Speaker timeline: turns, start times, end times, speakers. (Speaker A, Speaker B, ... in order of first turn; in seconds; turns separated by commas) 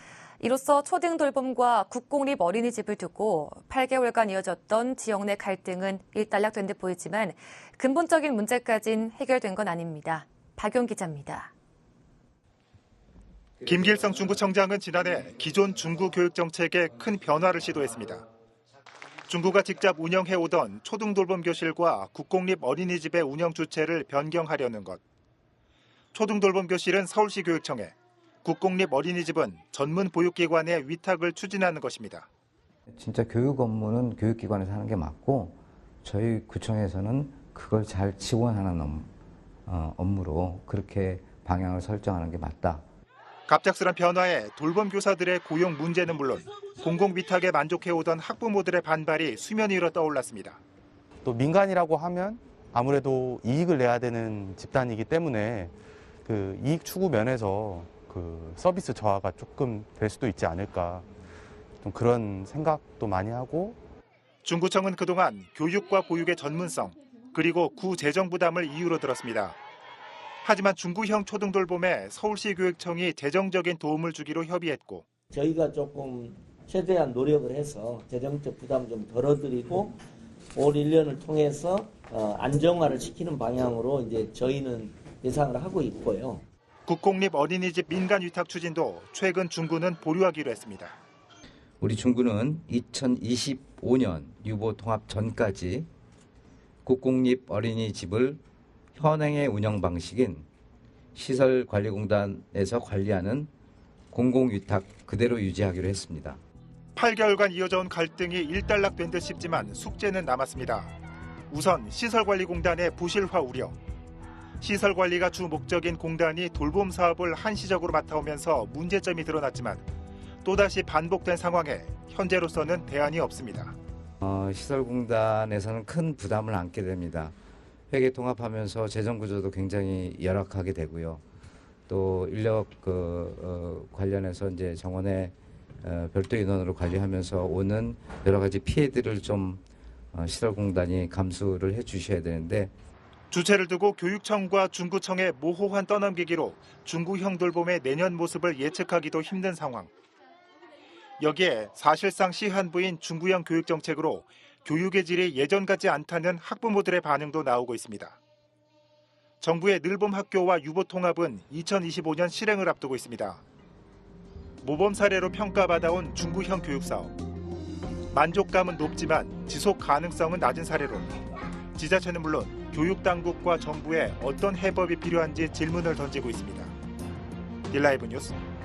Speaker A: 0.4-11.5, Speaker B: 13.6-18.2, Speaker B: 19.3-25.0, Speaker B: 26.1-27.9, Speaker B: 28.4-32.3, Speaker C: 32.9-39.1, Speaker C: 39.7-42.9, Speaker B: 43.5-50.6, Speaker D: 51.2-61.1, Speaker D: 61.8-63.8, Speaker B: 64.5-69.6, Speaker B: 70.4-75.1, Speaker E: 75.3-80.0, Speaker E: 80.5-86.5, Speaker B: 86.9-91.0, Speaker C: 91.8-95.9, Speaker C: 96.8-98.4, Speaker C: 99.0-100.5, Speaker C: 101.2-103.5, Speaker C: 104.1-106.4, Speaker B: 107.0-110.9, Speaker B: 111.5-113.8, Speaker B: 114.6-119.8, Speaker B: 120.4-123.8, Speaker C: 124.2-127.3, Speaker C: 127.9-131.2, Speaker C: 131.9-142.7, Speaker B: 143.3-149.9, Speaker B: 151.2-158.2, Speaker B: 159.4-163.4, Speaker B: 164.6-167.1, Speaker B: 168.1-171.1, Speaker B: 171.8-176.7, Speaker B: 177.7-178.4